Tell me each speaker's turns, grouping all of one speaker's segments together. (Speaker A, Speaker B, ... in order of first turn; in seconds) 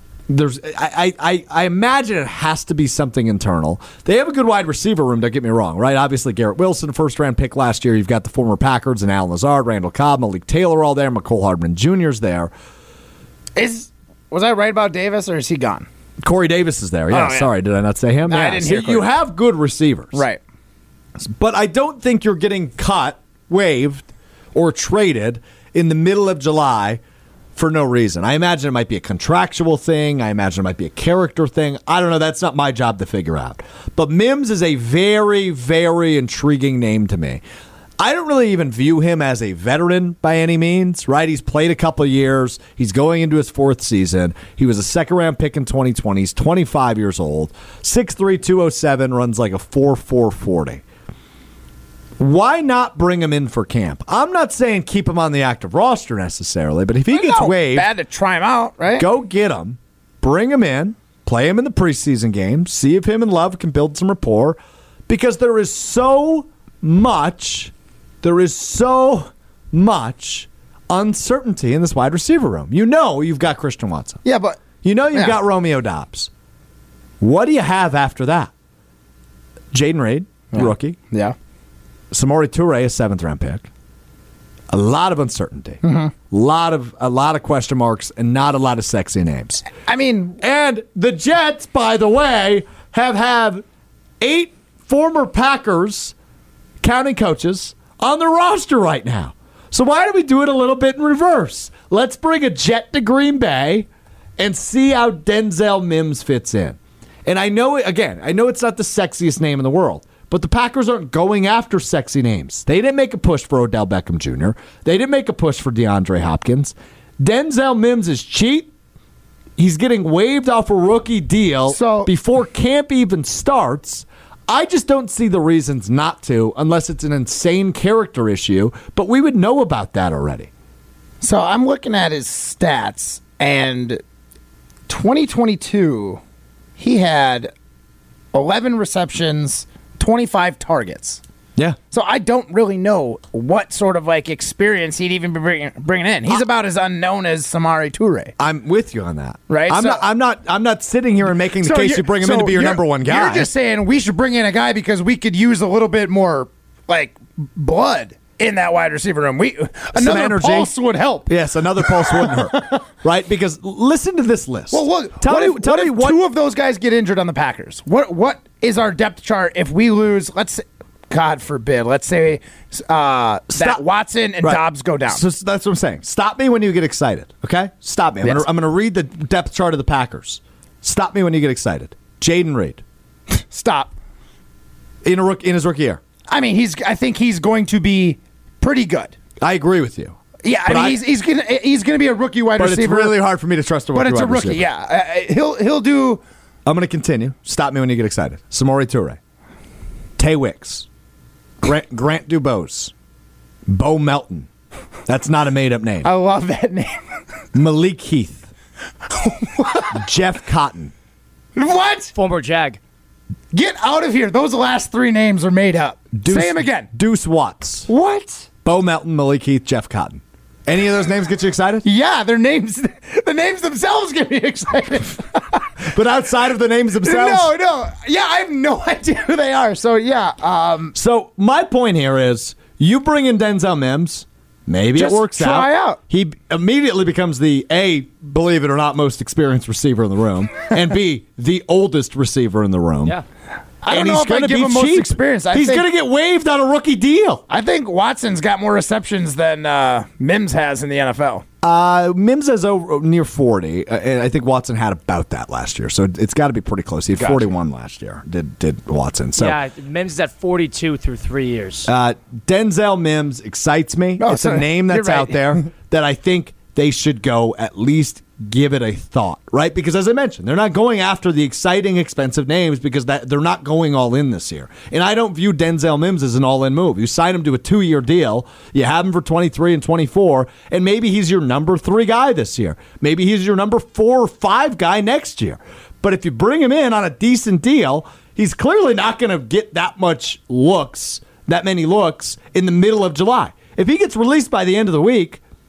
Speaker A: 0.3-12.5, 16.2-20.2, 21.2-27.0, 27.6-37.4, 38.0-50.8, 52.2-57.9, 59.0-74.2, 74.8-76.3, 77.2-78.5, 79.7-81.0, 82.1-83.7, 84.7-89.7, 90.4-93.7, 94.2-96.2, 96.8-118.7, 119.6-130.5, 148.4-153.5, 159.9-160.7, 161.3-166.2, 173.5-173.8, 174.4-182.8, 185.0-186.0, 189.4-191.0, 192.6-194.6, 196.7-199.2, 200.2-200.9, 201.6-202.9, 203.7-204.5, 205.1-206.1, 207.5-208.5, 209.9-210.9, 216.1-217.9, 218.6-221.9, 225.9-227.5, 230.9-243.2, 243.9-247.4, 251.6-259.6, 261.9-295.4
Speaker B: 13.6-15.9, 17.1-17.5, 18.3-19.1, 20.1-20.4, 57.1-59.1, 74.2-75.4, 80.5-81.3, 85.8-86.1, 89.8-90.4, 121.7-122.1, 131.2-134.0, 134.9-136.2, 136.8-137.5, 138.3-141.2, 141.9-148.3, 149.5-150.0, 151.6-162.8, 164.7-175.2, 183.3-183.9, 186.3-189.2, 190.4-193.2, 193.9-196.2, 206.0-207.0, 209.1-210.0, 211.6-212.1, 213.5-216.9, 217.9-218.5, 221.8-225.6, 227.0-230.9, 234.9-236.0, 243.8-245.8, 247.5-251.4, 257.2-257.5, 264.2-265.6
Speaker C: 212.1-212.8, 259.4-261.9